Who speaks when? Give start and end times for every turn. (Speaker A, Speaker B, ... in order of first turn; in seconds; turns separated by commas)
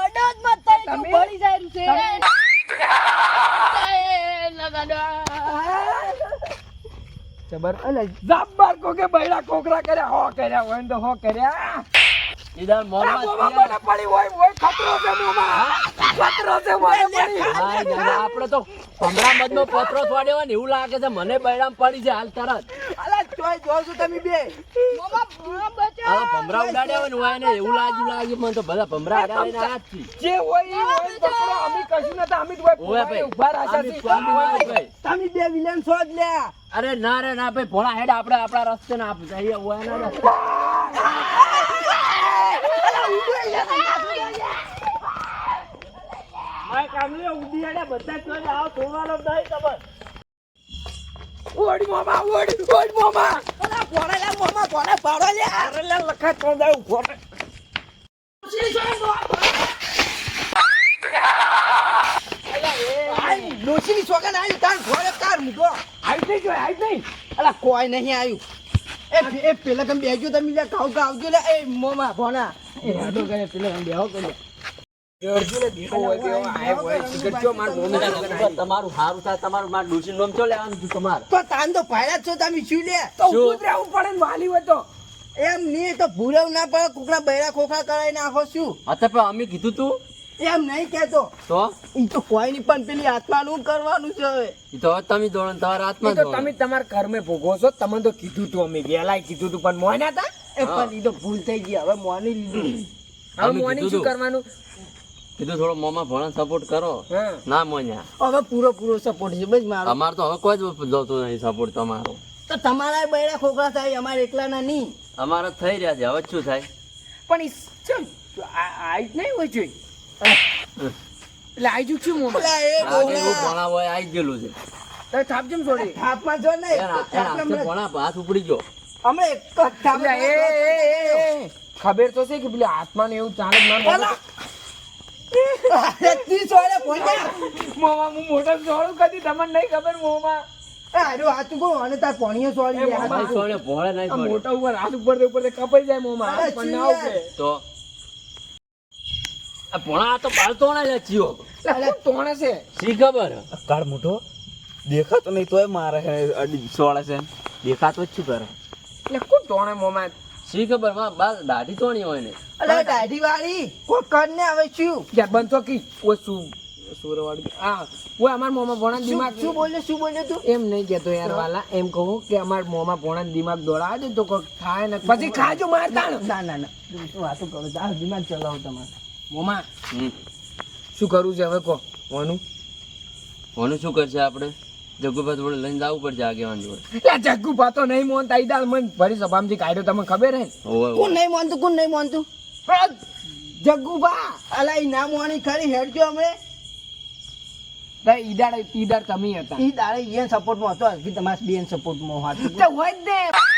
Speaker A: 0.7-1.4, Speaker B: 1.8-2.2, Speaker A: 1.9-2.1, Speaker B: 3.6-5.7, Speaker A: 5.5-6.1, Speaker A: 7.5-11.8, Speaker C: 7.8-8.1, Speaker D: 12.5-13.8, Speaker A: 13.0-17.6, Speaker D: 15.5-15.8, Speaker C: 16.8-18.2, Speaker D: 17.5-22.7, Speaker C: 22.7-24.5, Speaker B: 24.9-26.3, Speaker D: 26.0-30.1, Speaker C: 26.4-27.1, Speaker A: 30.1-34.7, Speaker B: 30.7-31.8, Speaker D: 32.8-34.9, Speaker C: 34.2-36.5, Speaker D: 36.7-40.3, Speaker A: 40.1-41.3, Speaker C: 41.0-42.1, Speaker A: 41.9-44.3, Speaker C: 42.6-44.4, Speaker D: 48.3-49.8, Speaker A: 51.5-53.4, Speaker C: 53.6-57.1, Speaker A: 58.4-59.5, Speaker A: 62.5-63.5, Speaker C: 63.0-65.8, Speaker A: 66.0-67.0, Speaker C: 67.3-68.4, Speaker C: 69.1-74.3, Speaker A: 72.8-73.3, Speaker A: 75.2-78.6, Speaker C: 75.8-78.5, Speaker D: 77.9-81.2, Speaker C: 81.3-83.1, Speaker A: 83.2-84.8, Speaker D: 83.3-83.6, Speaker C: 85.4-88.8, Speaker D: 88.9-90.0, Speaker C: 90.4-91.3, Speaker D: 91.5-91.7, Speaker C: 91.9-94.5, Speaker D: 94.7-96.5, Speaker A: 96.0-100.3, Speaker C: 100.5-102.8, Speaker D: 100.6-100.9, Speaker A: 103.4-104.4, Speaker D: 103.4-104.1, Speaker D: 105.4-108.1, Speaker A: 107.1-107.4, Speaker C: 108.2-110.0, Speaker D: 109.8-112.2, Speaker C: 112.5-114.9, Speaker D: 115.2-116.7, Speaker A: 117.3-119.7, Speaker A: 121.6-123.5, Speaker C: 122.2-123.5, Speaker D: 122.8-124.5, Speaker A: 125.1-126.0, Speaker C: 125.7-127.7, Speaker D: 126.7-128.6, Speaker C: 129.0-131.3, Speaker A: 129.8-134.2, Speaker C: 133.8-134.2, Speaker C: 135.5-137.4, Speaker A: 136.9-140.4, Speaker C: 140.9-143.4, Speaker A: 142.7-143.5, Speaker D: 142.9-144.4, Speaker A: 144.1-147.3, Speaker C: 146.2-147.2, Speaker D: 147.4-147.6, Speaker D: 149.7-151.4, Speaker A: 151.6-152.6, Speaker C: 151.7-152.0, Speaker D: 152.7-153.4, Speaker E: 153.6-154.2, Speaker E: 154.8-158.5, Speaker A: 159.1-160.1, Speaker D: 160.4-162.4, Speaker C: 162.6-165.1, Speaker A: 162.6-163.1, Speaker A: 165.1-169.6, Speaker C: 168.9-170.4, Speaker A: 170.4-176.2, Speaker C: 175.0-178.9, Speaker A: 179.3-179.7, Speaker A: 180.9-182.4, Speaker D: 183.6-186.8, Speaker A: 186.9-190.5, Speaker D: 190.6-191.2, Speaker C: 190.9-192.3, Speaker A: 192.7-193.0, Speaker A: 193.6-194.4, Speaker C: 194.5-196.3, Speaker A: 198.0-199.6, Speaker C: 199.6-202.7, Speaker A: 202.4-203.3